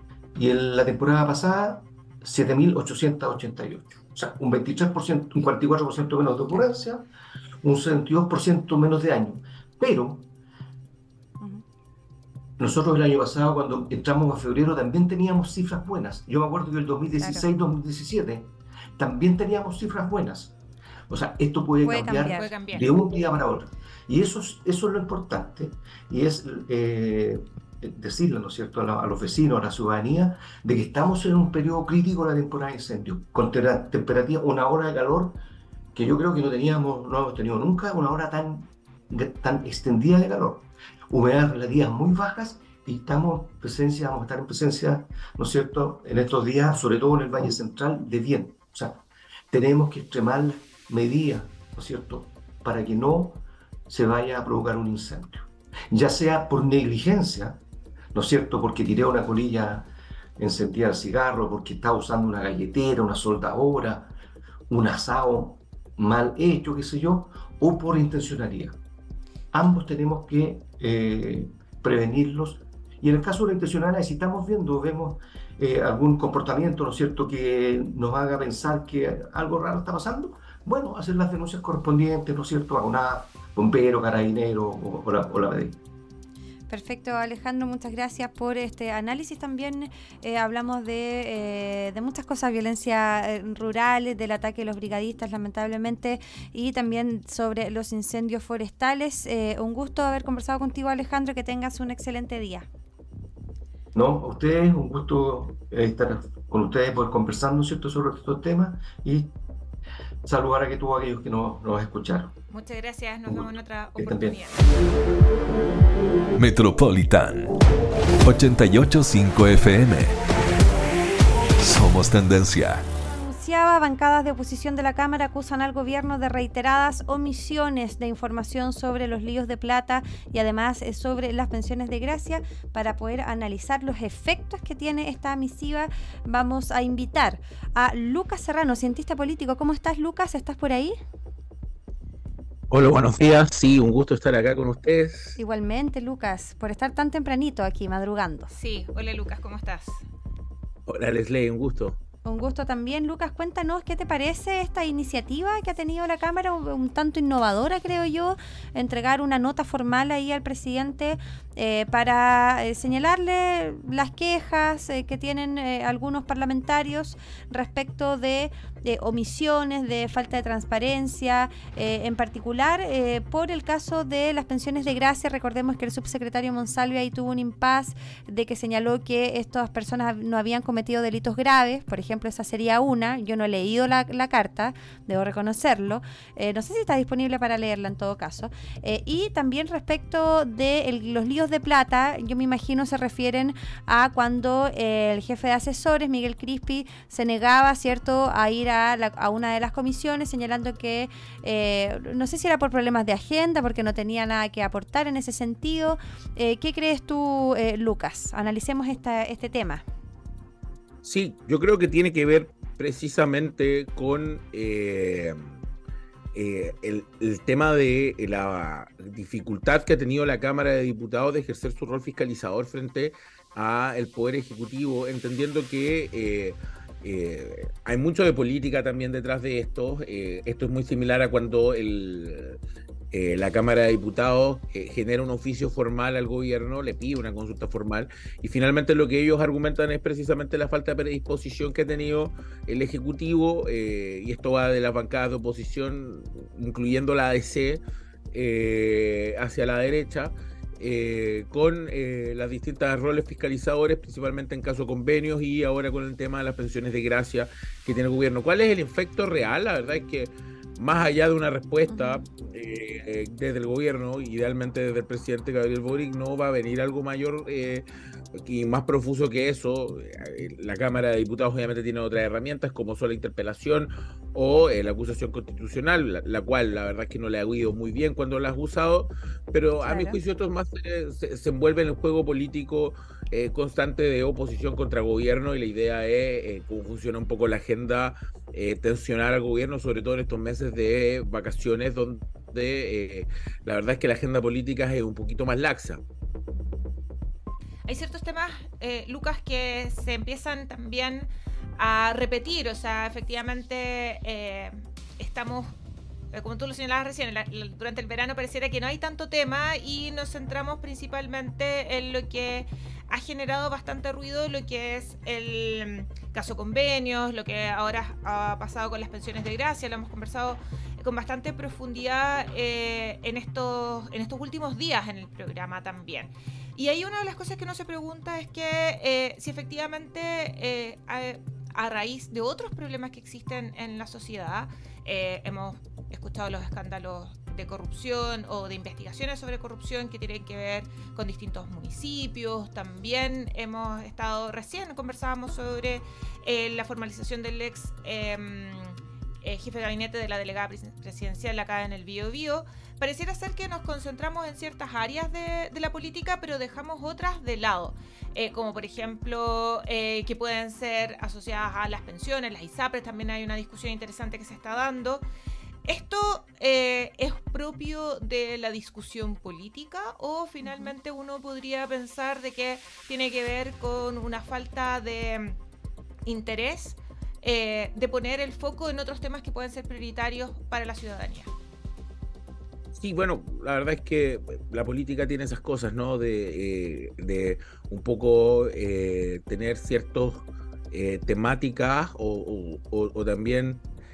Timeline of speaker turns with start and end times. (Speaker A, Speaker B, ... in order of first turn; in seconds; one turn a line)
Speaker A: 0.3-7.1
Speaker A: 7.6-10.3
Speaker A: 12.6-20.6
Speaker B: 17.2-17.4
Speaker A: 21.1-35.4
Speaker B: 21.8-22.5
Speaker C: 22.4-22.9
Speaker A: 35.9-57.6
Speaker A: 58.1-64.1
Speaker A: 64.7-68.8
Speaker A: 69.5-85.8
Speaker B: 86.7-102.7
Speaker A: 103.9-109.3
Speaker A: 110.2-112.4
Speaker C: 112.5-114.7
Speaker A: 113.3-114.5
Speaker D: 116.4-117.5
Speaker D: 118.2-120.2
Speaker D: 121.6-122.9
Speaker B: 123.0-141.0
Speaker E: 142.7-145.4
Speaker B: 145.4-148.5
Speaker C: 148.5-150.0
Speaker E: 150.9-152.0
Speaker B: 152.2-209.8
Speaker E: 211.0-215.4
Speaker E: 216.3-232.6
Speaker E: 233.1-267.9
Speaker B: 261.9-262.2
Speaker E: 268.4-296.0
Speaker B: 279.8-280.2
Speaker C: 297.9-305.7
Speaker C: 306.3-365.2
Speaker C: 365.9-375.6
Speaker B: 370.6-370.9
Speaker C: 376.3-381.5
Speaker E: 382.9-393.8